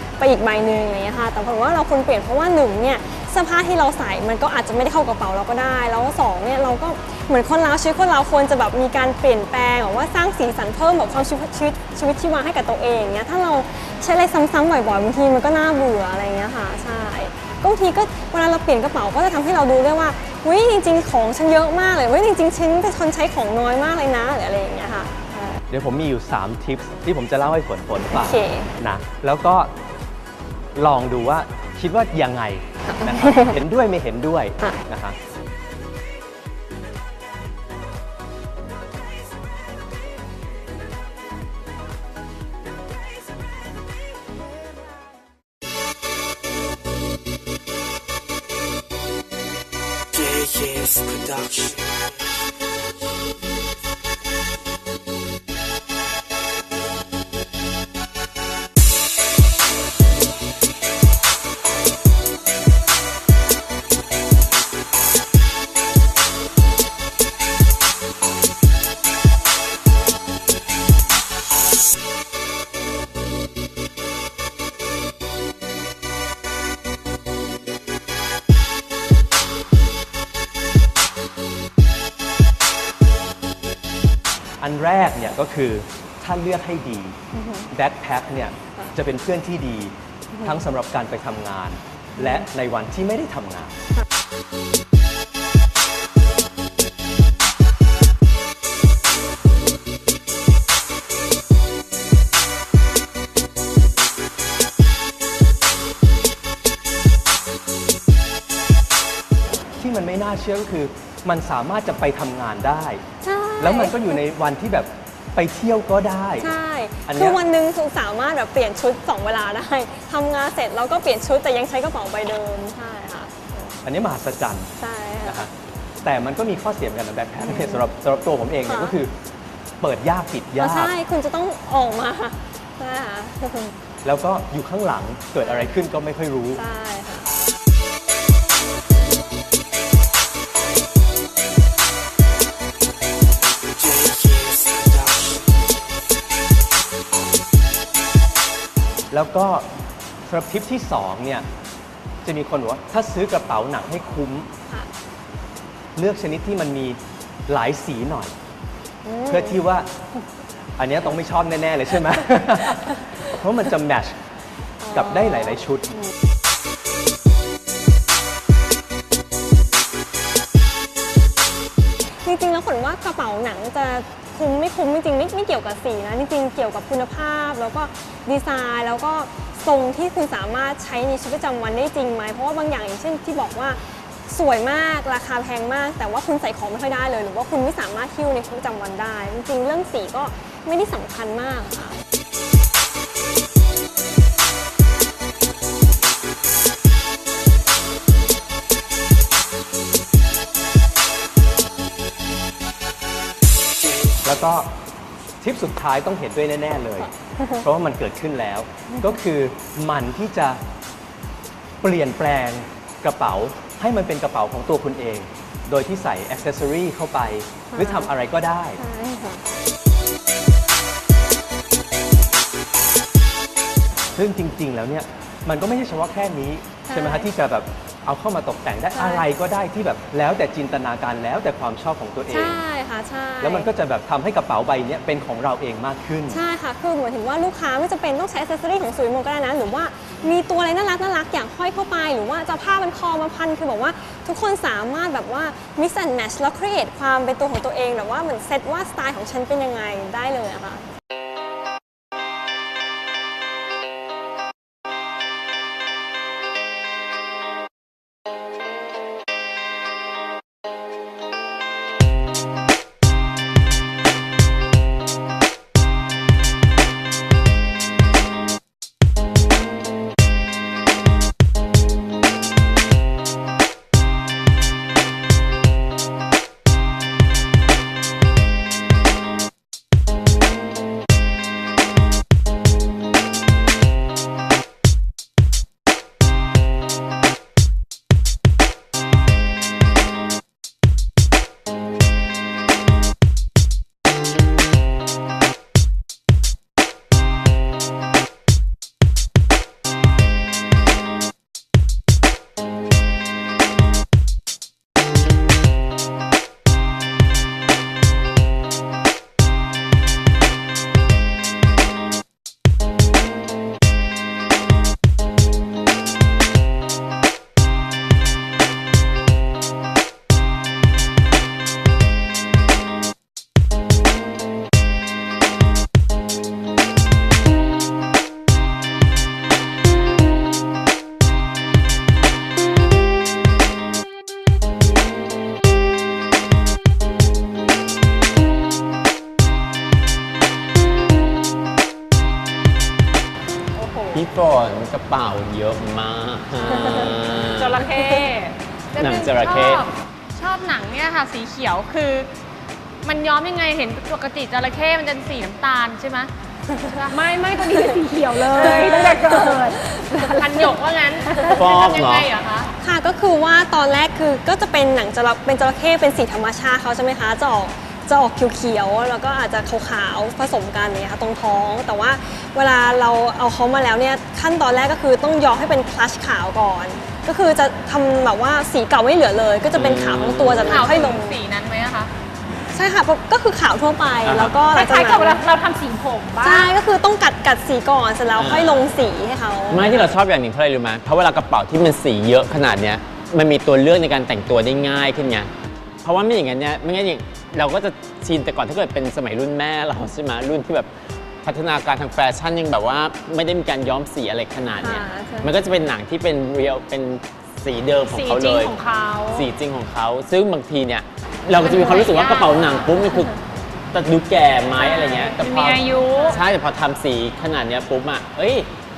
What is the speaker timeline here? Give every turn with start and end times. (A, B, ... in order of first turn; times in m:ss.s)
0:00.2-0:25.6 A
0:25.7-0:29.7 B
0:28.1-0:28.7 A
0:30.8-0:35.2 B
0:32.9-0:33.5 A
0:50.2-0:51.8 C
1:24.6-1:27.2 B
1:27.3-1:27.7 A
1:27.7-1:33.8 B
1:30.3-1:30.6 A
1:32.2-1:32.4 A
1:49.8-1:53.0 B
1:53.2-1:54.2 A
1:53.6-1:56.5 B
1:56.4-2:03.7 A
1:57.1-1:57.4 B
2:03.8-2:04.7 B
2:04.8-2:05.5 A
2:05.2-2:05.5 B
2:06.0-2:09.1 B
2:07.4-2:07.8 A
2:08.6-2:09.0 A
2:09.8-2:10.9 B
2:10.6-2:13.8 A
2:14.0-2:16.6 B
2:15.4-2:15.7 A
2:16.5-2:17.3 A
2:23.8-2:25.0 C
2:29.1-2:29.6 B
2:30.3-2:31.4 B
2:32.2-2:34.5 B
2:35.9-2:38.3 B
2:39.0-2:39.6 A
2:39.3-2:39.9 B
2:40.8-2:44.2 B
2:44.8-2:46.1 A
2:44.9-2:45.9 B
2:52.2-3:12.0 A
3:24.2-3:24.7 B
3:25.4-3:30.6 B
3:27.4-3:27.6 A
3:28.9-3:29.2 A
3:31.8-3:38.8 B
3:37.7-3:38.1 A
3:38.8-3:39.4 A
3:44.1-3:52.6 B
3:46.9-3:47.3 A
3:48.9-3:49.2 A
3:52.3-3:53.7 A
3:53.4-3:56.4 B
3:56.3-4:10.8 A
5:43.8-5:44.2 D
5:44.1-5:47.9 E
5:47.6-5:48.5 D
5:48.9-5:52.3 F
5:49.0-5:49.9 E
5:49.4-5:49.8 D
5:53.0-5:56.3 F
5:56.9-5:57.7 F
5:57.1-6:02.6 D
5:58.5-5:59.7 A
6:00.3-6:02.6 F
6:01.4-6:02.3 E
6:02.8-6:21.4 A
6:19.7-6:21.2 E
6:20.7-6:22.1 F
6:22.7-6:25.4 A
6:24.2-6:24.6 E
6:24.7-6:26.7 D
6:26.4-6:30.1 A
6:28.4-6:28.9 E
6:29.7-6:35.5 E
6:36.0-6:40.9 E
6:41.4-6:48.8 E
6:44.8-6:45.5 A
6:48.1-6:49.5 D
6:49.3-6:53.4 E
6:51.5-6:53.0 D
6:53.9-6:58.7 E
6:54.8-6:56.4 D